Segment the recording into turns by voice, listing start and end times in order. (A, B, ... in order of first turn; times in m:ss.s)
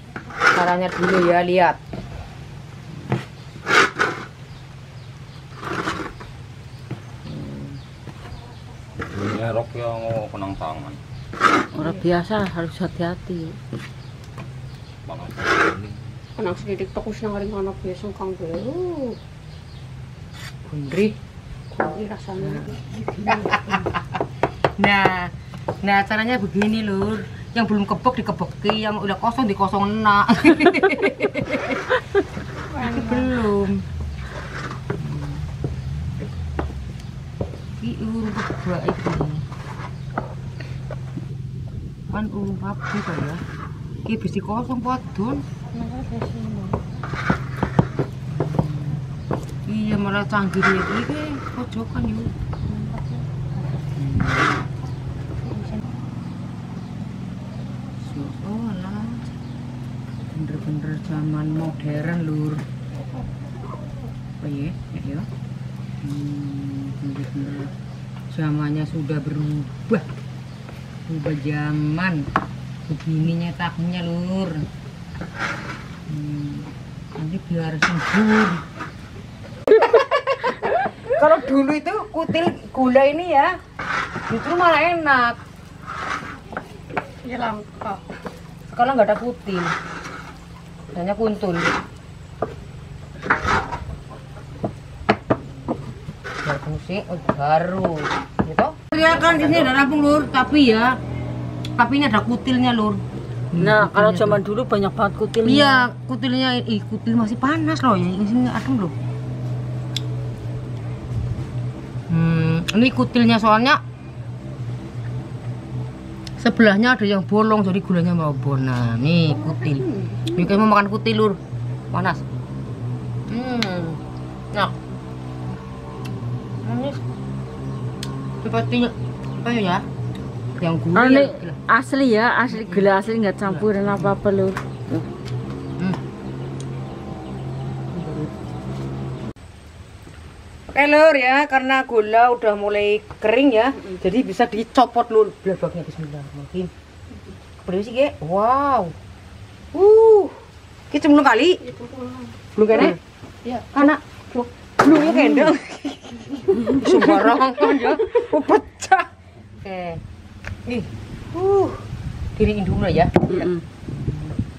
0:00.5-0:01.8 A
0:07.2-0:07.8 A
0:09.1-0:11.0 B
0:11.7-0:13.6 C
0:11.8-0:12.0 A
0:15.0-0:16.0 B
0:16.4-0:19.2 D
0:20.6-0:21.1 A
0:21.7-0:23.8 D
0:22.4-0:22.8 A
0:23.3-0:24.0 A
0:24.8-0:25.3 A
0:25.8-0:31.9 A
0:32.7-0:33.3 D
0:32.8-0:33.8 A
0:35.0-0:35.4 A
0:37.8-0:39.4 A
0:42.1-0:43.4 A
0:44.0-0:46.8 A
0:48.3-0:49.0 A
0:49.6-0:53.2 A
0:53.7-0:54.6 A
0:55.4-0:55.8 A
0:58.0-0:59.4 A
1:00.3-1:02.6 A
1:04.4-1:05.3 A
1:06.0-1:07.7 A
1:08.3-1:10.0 A
1:11.1-1:12.2 A
1:12.9-1:14.6 A
1:16.1-1:18.6 A
1:19.7-1:23.5 A
1:24.3-1:25.4 A
1:27.2-1:28.0 D
1:28.7-1:29.7 A
1:30.9-1:31.7 A
1:36.4-1:41.0 A
1:41.8-1:43.0 A
1:43.5-1:44.4 A
1:43.6-1:45.8 C
1:45.4-1:48.9 A
1:52.1-1:53.8 A
1:56.4-2:01.4 A
1:59.3-2:00.5 D
2:01.9-2:02.2 A
2:03.3-2:04.0 A
2:06.6-2:07.0 A
2:08.4-2:09.8 A
2:10.6-2:11.6 A
2:10.9-2:14.6 C
2:12.5-2:12.9 A
2:13.5-2:14.1 A
2:17.9-2:18.3 A
2:20.7-2:26.7 A
2:27.6-2:28.9 A
2:29.7-2:30.4 A
2:30.9-2:31.7 A
2:31.7-2:32.9 D
2:32.5-2:33.0 A
2:33.4-2:35.0 D
2:33.7-2:34.0 A
2:34.8-2:39.1 A
2:36.6-2:36.9 C
2:39.6-2:40.0 A
2:40.6-2:41.8 A
2:42.4-2:44.4 A
2:43.3-2:43.6 C